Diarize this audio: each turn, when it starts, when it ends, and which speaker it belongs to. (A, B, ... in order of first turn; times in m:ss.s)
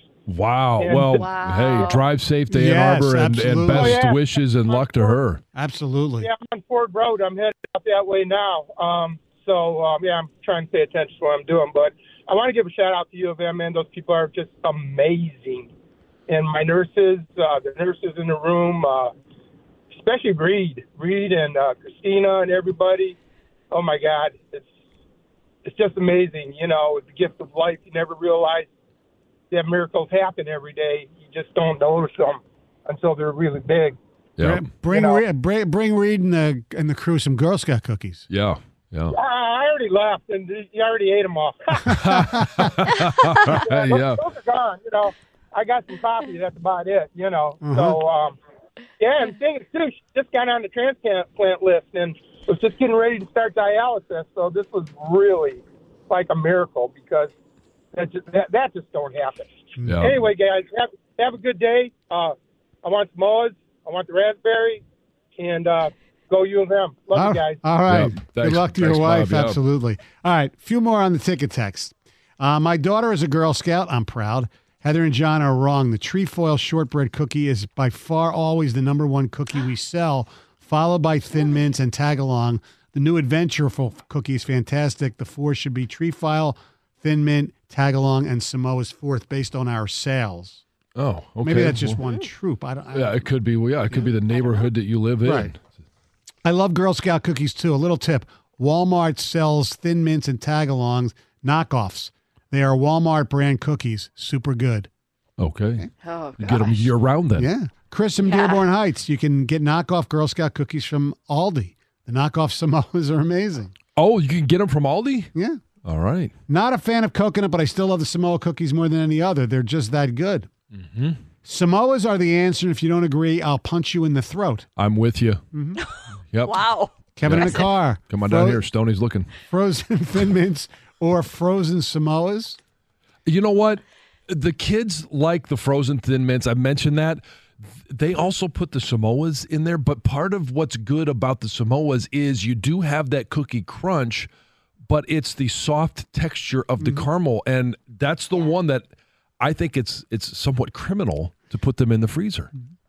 0:00.3-0:05.4 A
0:00.8-0:02.0 B
0:01.1-0:02.0 C
0:02.5-0:04.1 D
0:03.7-0:05.2 B
0:05.5-0:06.3 D
0:06.2-0:15.7 B
0:16.3-0:19.1 B
0:19.9-0:23.2 B
0:23.7-0:24.7 B
0:25.6-0:28.7 B
0:29.5-0:34.0 B
0:34.4-0:34.7 A
0:34.4-0:38.2 D
0:34.9-0:35.2 B
0:38.3-0:39.2 A
0:39.1-0:42.0 B
0:41.8-0:44.2 A
0:42.0-0:42.3 D
0:43.4-0:48.4 B
0:47.6-0:48.0 D
0:49.0-0:57.3 B
0:57.9-1:04.8 B
0:59.8-1:00.1 D
0:59.9-1:00.2 A
1:05.4-1:07.6 B
1:07.1-1:30.6 D
1:07.9-1:09.6 A
1:31.0-1:32.0 A
1:31.4-1:33.2 D
1:32.9-1:35.6 A
1:35.2-1:35.5 D
1:36.4-1:44.9 D
1:45.4-1:45.9 A
1:46.0-1:46.9 C
1:46.4-1:47.5 A
1:47.4-1:53.7 D
1:48.2-1:48.6 C
1:54.0-1:55.3 A
1:55.3-1:55.6 D
1:55.8-1:56.3 A
1:56.5-2:00.5 D
2:00.7-2:01.2 A
2:01.4-2:04.7 D
2:04.8-2:05.4 A
2:05.5-2:05.8 D
2:06.3-2:06.6 A
2:06.4-2:06.9 C
2:07.2-2:08.6 D
2:07.2-2:09.3 A
2:09.5-2:12.6 D
2:13.2-2:24.3 A
2:24.9-2:28.9 A
2:26.8-2:27.1 D
2:29.4-2:32.5 A